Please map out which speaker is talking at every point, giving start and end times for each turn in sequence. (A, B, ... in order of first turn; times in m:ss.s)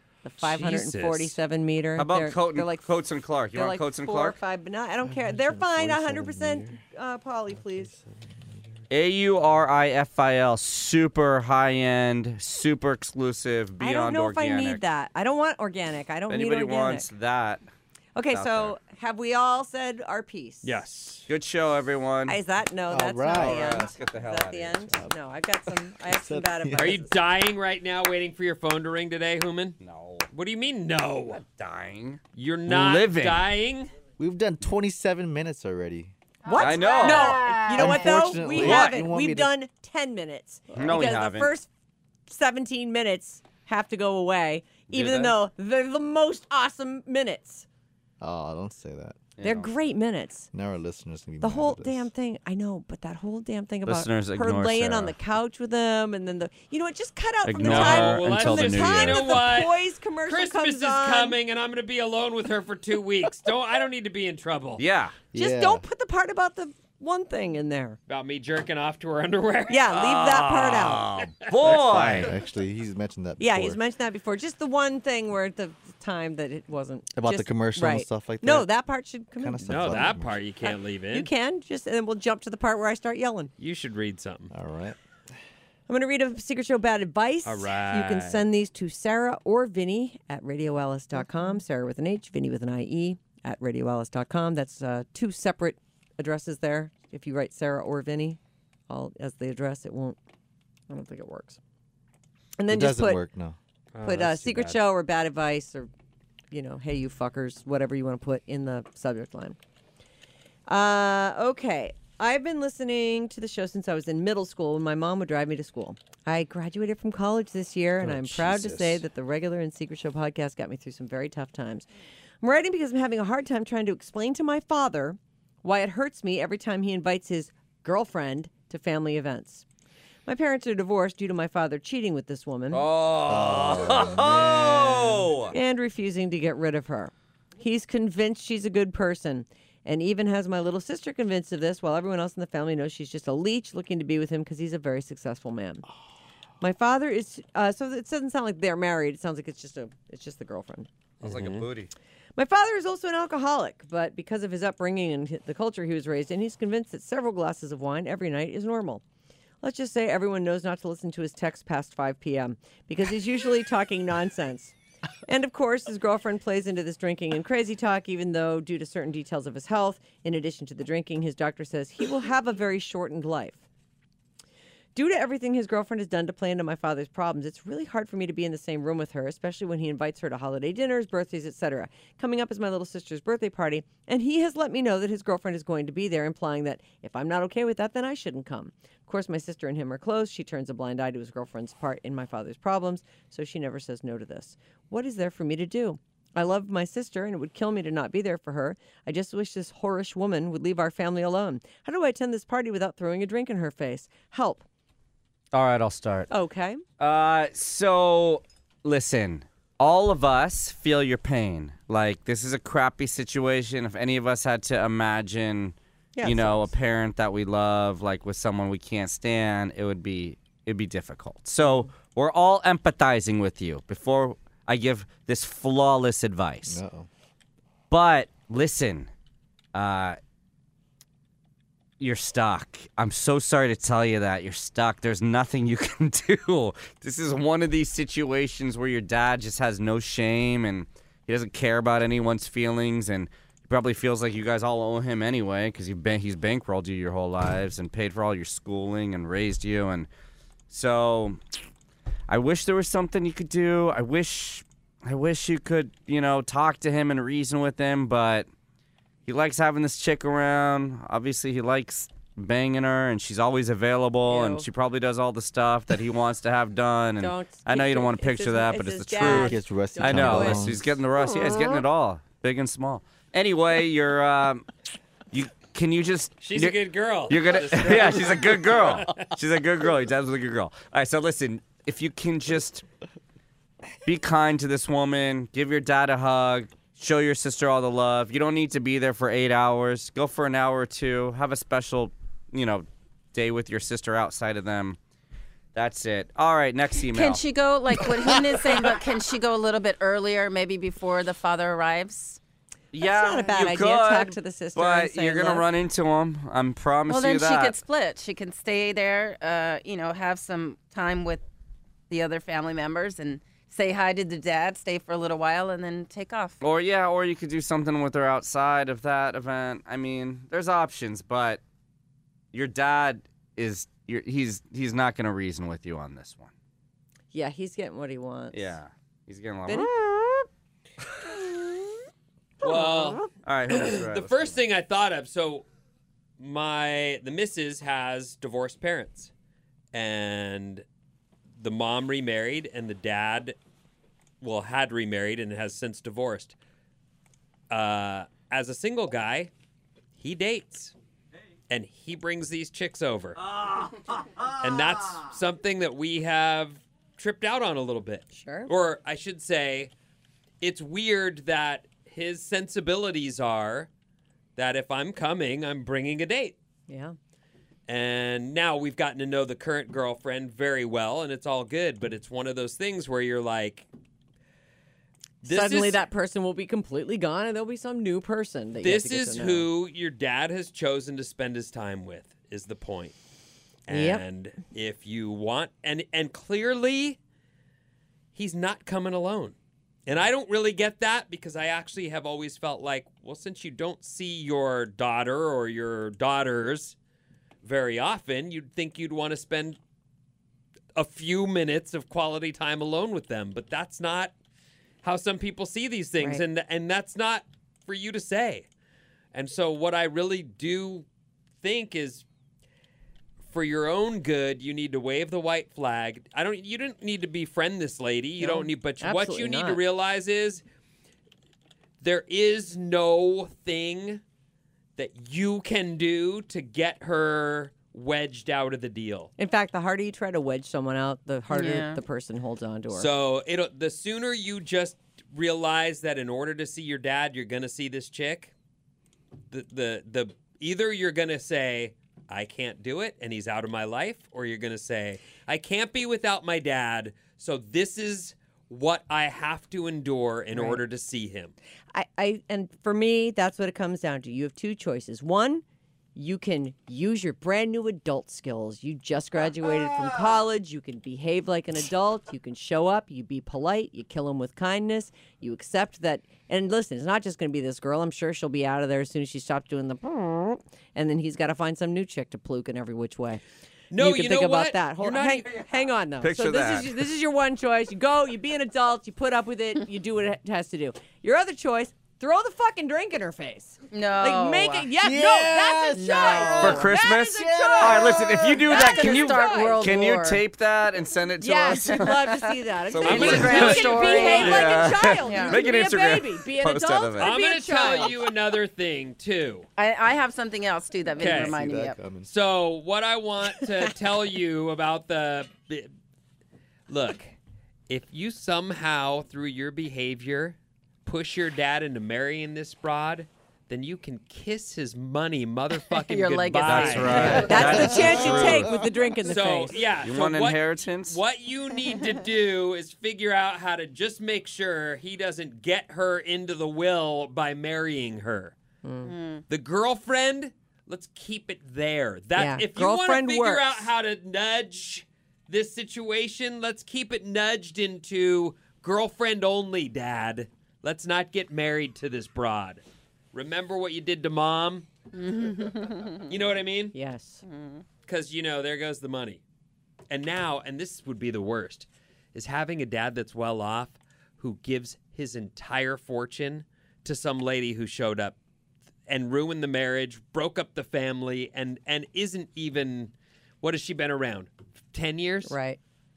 0:00.2-0:02.9 A
0:00.4-0:01.4 B
0:02.0-0:04.4 C
0:03.5-0:07.9 A
0:05.0-0:06.8 D
0:07.5-0:08.9 D
0:08.9-0:14.8 C
0:13.8-0:17.1 A
0:16.3-0:17.6 C
0:18.2-0:20.8 A
0:18.3-0:18.8 C
0:20.6-0:21.3 B
0:21.3-0:22.4 C
0:22.3-0:27.2 A
0:22.9-0:23.9 D
0:23.3-0:25.0 C
0:26.0-0:27.0 D
0:26.8-0:29.8 B
0:29.8-0:30.3 C
0:30.3-0:31.4 B
0:31.4-0:33.5 C
0:32.4-0:33.9 B
0:34.2-0:36.1 D
0:36.5-0:38.1 E
0:36.5-0:41.7 A
0:36.6-0:37.5 C
0:37.7-0:39.5 D
0:38.5-0:39.0 C
0:40.7-0:41.5 C
0:42.3-0:47.6 A
0:44.9-0:45.4 C
0:48.2-0:49.2 D
0:49.4-0:49.7 C
0:49.4-0:50.5 A
0:50.5-0:52.1 D
0:51.4-1:01.4 A
0:53.9-0:55.2 C
0:57.4-0:59.4 C
0:57.6-1:04.8 B
1:04.8-1:05.2 C
1:05.3-1:05.8 D
1:05.3-1:08.0 A
1:08.1-1:10.4 B
1:09.7-1:11.3 A
1:09.9-1:12.4 C
1:11.6-1:13.8 D
1:13.4-1:23.5 A
1:17.2-1:18.7 D
1:19.4-1:20.4 D
1:19.7-1:21.3 B
1:23.6-1:24.5 B
1:24.5-1:25.0 D
1:25.9-1:40.2 A
1:27.4-1:28.4 B
1:40.9-1:41.6 A
1:42.6-1:43.2 A
1:42.7-1:43.6 D
1:43.9-1:44.8 B
1:44.0-1:45.9 A
1:46.5-1:49.6 A
1:50.7-2:01.9 A
1:58.0-1:59.0 B
2:02.4-2:09.6 A
2:10.3-2:12.9 A
2:12.7-2:15.6 C
2:13.2-2:15.3 D
2:15.5-2:25.8 A
2:26.6-2:30.9 A
2:31.2-2:31.7 B
2:31.2-2:31.9 C
2:32.4-2:39.0 A
2:39.6-2:44.7 A
2:45.3-2:53.6 A
2:55.0-3:24.6 A
3:25.5-3:26.3 C
3:26.3-3:26.8 A
3:27.0-3:46.8 C
3:36.2-3:36.7 A
3:46.7-3:47.1 D
3:47.9-3:49.1 C
3:49.7-3:50.2 C
3:52.0-4:10.1 C
4:10.7-4:11.4 C
4:12.3-4:18.5 C
4:19.3-4:34.7 C
4:24.3-4:24.7 A
4:27.2-4:30.9 A
4:29.2-4:30.9 D
4:35.3-4:42.8 C
4:36.4-4:39.3 B
4:44.0-4:55.0 C
4:55.7-4:57.4 C
4:57.0-5:02.4 E
5:02.9-5:07.8 C
5:03.0-5:05.7 A
5:07.1-5:11.5 E
5:12.1-5:16.6 E
5:16.6-5:21.6 C
5:22.5-5:26.5 C
5:27.3-5:28.8 A
5:28.5-5:30.0 C
5:29.7-5:30.5 A
5:32.6-5:35.6 B
5:32.6-5:33.2 A
5:33.4-5:34.5 C
5:36.4-5:39.3 B
5:39.9-5:40.8 B
5:41.6-5:43.6 B
5:44.4-5:46.6 B
5:47.7-5:49.5 B
5:50.2-5:50.9 B
5:51.7-5:53.4 B
5:53.4-5:54.5 C
5:54.6-5:59.9 B
5:58.3-5:58.7 A
6:00.6-6:03.9 B
6:04.6-6:06.6 B
6:06.9-6:07.2 A
6:07.9-6:13.9 B
6:15.4-6:16.0 B
6:15.4-6:19.7 A
6:18.8-6:23.2 B
6:23.9-6:27.2 B
6:23.9-6:24.2 A
6:28.4-6:29.6 B
6:30.1-6:37.0 B
6:37.6-6:39.8 B
6:41.0-6:44.3 B
6:45.0-6:48.7 B
6:49.3-6:51.1 B
6:51.6-6:52.2 B
6:53.5-7:00.6 B
6:58.4-6:59.8 A
7:02.0-7:04.2 B
7:05.0-7:09.3 B
7:09.4-7:13.1 A
7:11.5-7:12.0 E
7:12.9-7:18.5 B
7:19.5-7:31.5 B
7:30.5-7:30.8 A
7:31.9-7:35.6 A
7:36.2-7:53.4 A
7:53.9-7:55.9 B
7:53.9-8:09.8 A
7:56.2-7:57.1 C
8:03.9-8:04.9 E
8:05.0-8:08.5 D
8:05.9-8:06.9 E
8:06.6-8:12.2 C
8:08.6-8:10.4 E
8:11.4-8:18.2 A
8:11.8-8:15.6 E
8:12.9-8:17.4 C
8:13.0-8:15.0 B
8:17.2-8:19.7 B
8:19.8-8:22.0 E
8:21.2-8:21.6 B
8:21.2-8:22.3 D
8:22.2-8:25.9 B
8:26.9-8:27.4 B
8:27.9-8:38.7 B
8:35.9-8:37.7 E
8:36.6-8:38.8 C
8:37.3-8:39.9 A
8:39.2-8:48.6 B
8:40.0-8:41.2 C
8:48.8-8:49.1 A
8:49.0-8:49.4 E
8:49.5-9:04.9 B
8:52.4-8:53.9 A
9:05.1-9:06.3 E
9:06.3-9:07.0 B
9:06.9-9:07.4 A
9:07.4-9:07.8 E
9:08.1-9:09.4 B
9:10.1-9:18.4 B
9:19.1-9:25.6 B
9:25.4-9:25.8 A